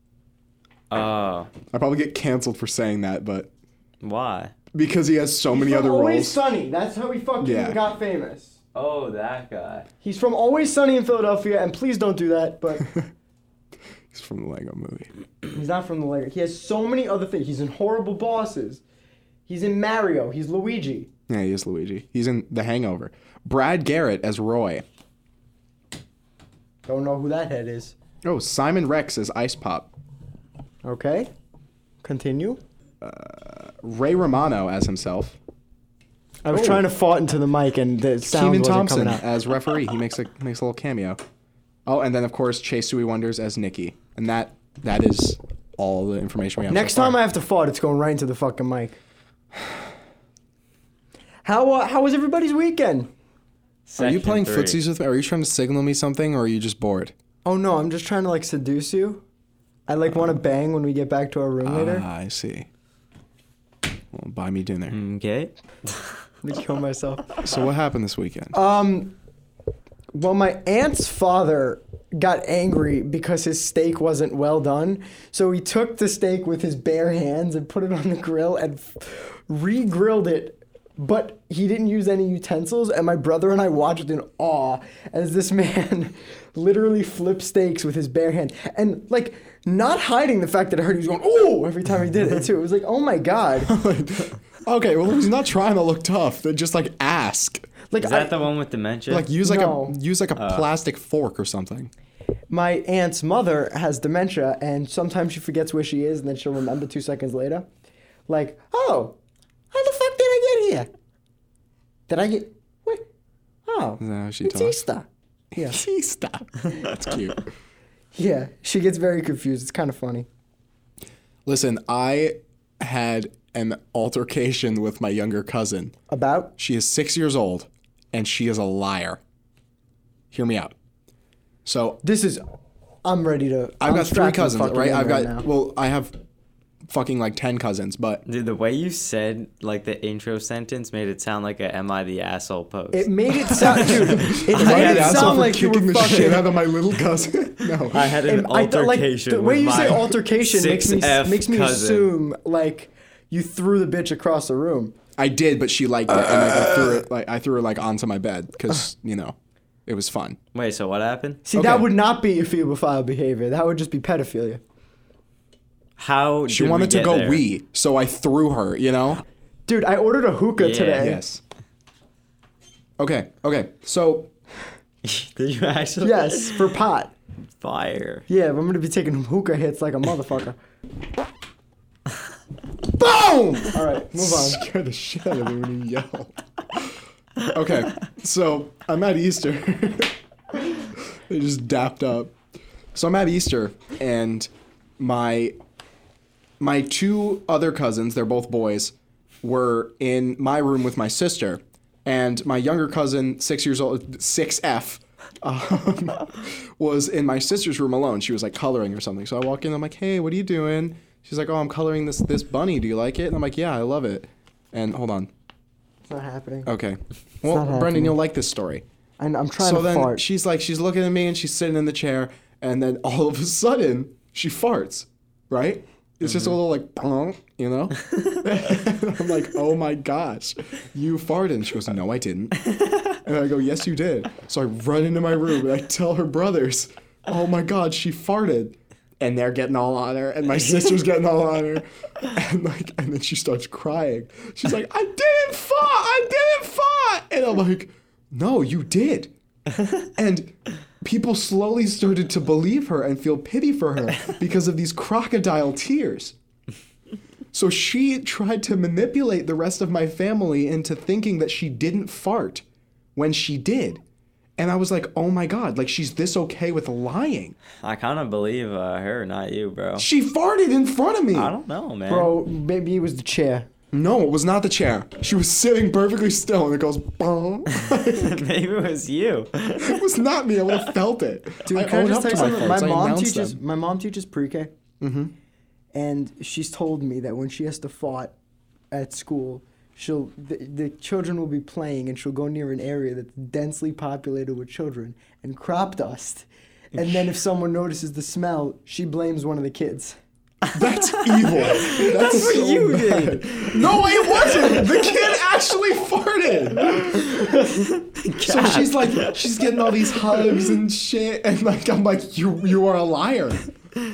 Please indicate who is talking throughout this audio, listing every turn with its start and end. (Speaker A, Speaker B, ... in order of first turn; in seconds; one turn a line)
Speaker A: 0.9-1.5
Speaker B: 1.7-3.5
Speaker A: 4.0-4.5
Speaker B: 4.7-6.4
Speaker C: 5.5-8.6
Speaker B: 7.4-7.8
Speaker A: 8.7-9.9
Speaker C: 10.0-12.9
Speaker B: 12.8-13.1
Speaker B: 14.1-15.1
Speaker C: 15.5-18.8
Speaker C: 19.5-21.1
Speaker B: 21.3-24.8
Speaker C: 26.9-27.9
Speaker B: 28.2-29.9
Speaker C: 30.8-31.3
Speaker C: 32.0-32.6
Speaker B: 33.0-35.4
Speaker C: 36.4-39.2
Speaker B: 36.5-36.9
Speaker B: 38.2-41.2
Speaker B: 41.9-47.2
Speaker C: 46.7-49.0
Speaker C: 51.4-53.1
Speaker A: 53.9-54.8
Speaker B: 54.0-57.1
Speaker C: 57.4-59.2
Speaker C: 59.9-62.1
Speaker B: 61.6-62.7
Speaker B: 64.1-65.0
Speaker A: 64.9-66.1
Speaker C: 66.4-67.4
Speaker B: 67.4-68.6
Speaker C: 68.5-69.2
Speaker C: 70.1-93.7
Speaker B: 93.6-97.7
Speaker C: 97.9-98.4
Speaker A: 98.0-99.3
Speaker B: 99.1-101.9
Speaker C: 99.4-100.0
Speaker A: 100.4-100.7
Speaker C: 102.5-107.7
Speaker C: 108.3-109.2
Speaker C: 109.7-110.9
Speaker C: 112.1-113.1
Speaker C: 113.7-115.8
Speaker B: 114.0-114.8
Speaker B: 115.5-117.4
Speaker C: 118.1-120.3
Speaker B: 121.5-125.9
Speaker C: 126.1-126.5
Speaker B: 126.6-129.2
Speaker B: 130.3-130.7
Speaker B: 131.6-132.0
Speaker C: 132.0-132.4
Speaker C: 133.0-135.5
Speaker B: 133.8-136.2
Speaker B: 136.9-138.2
Speaker A: 138.2-146.4
Speaker C: 142.9-146.5
Speaker B: 143.8-148.1
Speaker A: 147.8-152.1
Speaker C: 148.2-154.9
Speaker B: 155.2-160.4
Speaker A: 160.5-161.4
Speaker C: 161.4-164.6
Speaker B: 161.5-161.9
Speaker A: 166.0-167.4
Speaker B: 166.5-169.2
Speaker C: 169.7-171.2
Speaker A: 170.6-171.1
Speaker B: 171.0-171.4
Speaker B: 173.0-174.3
Speaker A: 175.0-176.7
Speaker C: 176.0-177.1
Speaker A: 177.6-178.2
Speaker C: 178.3-180.6
Speaker C: 182.9-184.6
Speaker B: 184.1-186.9
Speaker B: 187.5-192.3
Speaker B: 192.9-195.6
Speaker B: 196.6-215.3
Speaker C: 216.1-216.7
Speaker B: 216.6-218.8
Speaker C: 217.4-218.2
Speaker C: 219.2-220.2
Speaker B: 219.6-232.6
Speaker A: 232.7-233.1
Speaker B: 233.2-249.3
Speaker B: 250.1-256.4
Speaker B: 257.5-262.6
Speaker B: 263.1-264.0
Speaker B: 264.6-267.6
Speaker A: 267.8-270.1
Speaker B: 270.0-271.5
Speaker A: 271.3-272.3
Speaker C: 272.1-273.7
Speaker B: 273.9-278.4
Speaker A: 277.7-280.0
Speaker B: 279.8-283.6
Speaker C: 281.6-284.7
Speaker B: 285.0-285.3
Speaker C: 285.9-288.3
Speaker C: 288.9-300.2
Speaker A: 300.7-305.1
Speaker B: 300.7-307.3
Speaker A: 306.9-309.5
Speaker B: 308.4-313.6